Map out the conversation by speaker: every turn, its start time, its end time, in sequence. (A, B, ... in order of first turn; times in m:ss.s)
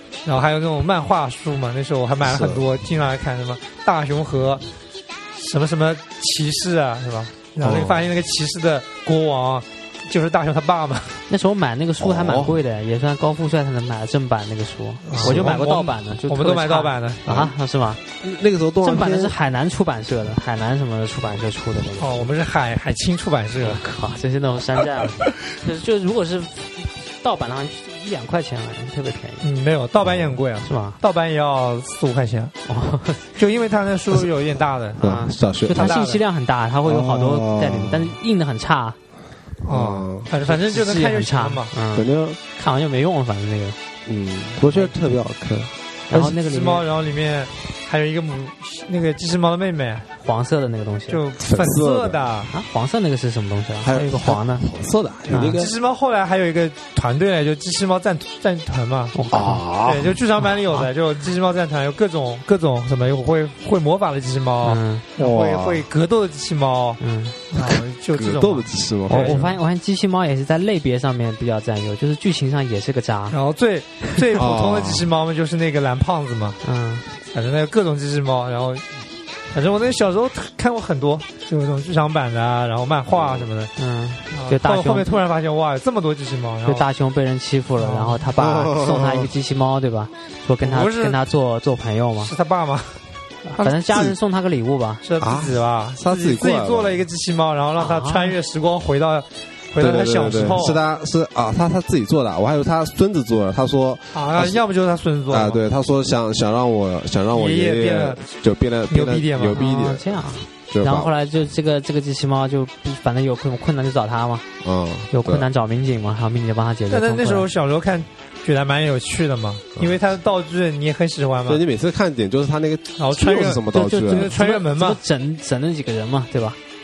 0:00.2-0:04.6 A
0:02.2-0:02.6 B
0:05.3-0:11.2 A
0:07.6-0:08.1 B
0:11.3-0:18.0 C
0:12.0-0:12.6 B
0:15.0-0:15.6 B
0:15.1-0:17.2 A
0:17.2-0:19.3 B
0:18.8-0:22.3 C
0:22.0-0:23.8 A
0:23.6-0:29.5 C
0:29.4-0:32.5 A
0:30.0-0:30.4 B
0:30.6-0:31.0 C
0:32.7-0:33.2 C
0:33.4-0:35.0 A
0:35.0-0:36.0 B
0:35.0-0:39.0 C
0:35.7-0:36.2 A
0:36.8-0:38.2 B
0:39.6-0:41.7 A
0:39.7-0:40.3 B
0:40.4-0:43.8 C
0:41.9-0:42.4 B
0:44.0-0:45.7 B
0:44.6-0:45.0 C
0:46.1-0:46.8 C
0:46.1-0:50.1 A
0:50.2-0:51.2 C
0:51.1-0:52.5 A
0:51.4-0:52.3 B
0:52.5-0:54.6 C
0:53.8-0:55.7 B
0:55.3-0:55.6 C
0:55.3-0:59.1 A
0:59.1-0:59.6 C
0:59.3-1:00.2 B
0:59.8-1:07.0 A
1:00.4-1:00.9 C
1:04.6-1:05.0 C
1:05.2-1:05.9 B
1:07.0-1:07.5 C
1:07.5-1:09.5 A
1:07.6-1:09.5 B
1:09.1-1:13.4 C
1:13.3-1:16.6 A
1:14.3-1:15.1 B
1:16.6-1:17.0 C
1:17.3-1:18.9 A
1:19.5-1:23.7 A
1:23.1-1:23.5 B
1:23.8-1:25.2 C
1:24.3-1:26.8 A
1:26.6-1:32.3 C
1:27.8-1:28.2 A
1:28.4-1:29.3 B
1:30.6-1:31.2 A
1:32.2-1:33.0 A
1:33.4-1:35.0 C
1:33.6-1:34.2 B
1:35.0-1:40.8 A
1:35.2-1:37.0 B
1:37.8-1:38.4 C
1:39.8-1:44.6 B
1:44.1-1:45.6 A
1:45.3-1:51.1 B
1:47.3-1:48.3 A
1:48.9-1:49.6 A
1:49.5-1:54.4 C
1:54.6-1:55.5 B
1:55.1-1:57.4 C
1:56.9-2:01.6 A
2:01.4-2:04.3 B
2:03.0-2:05.0 A
2:03.7-2:06.6 C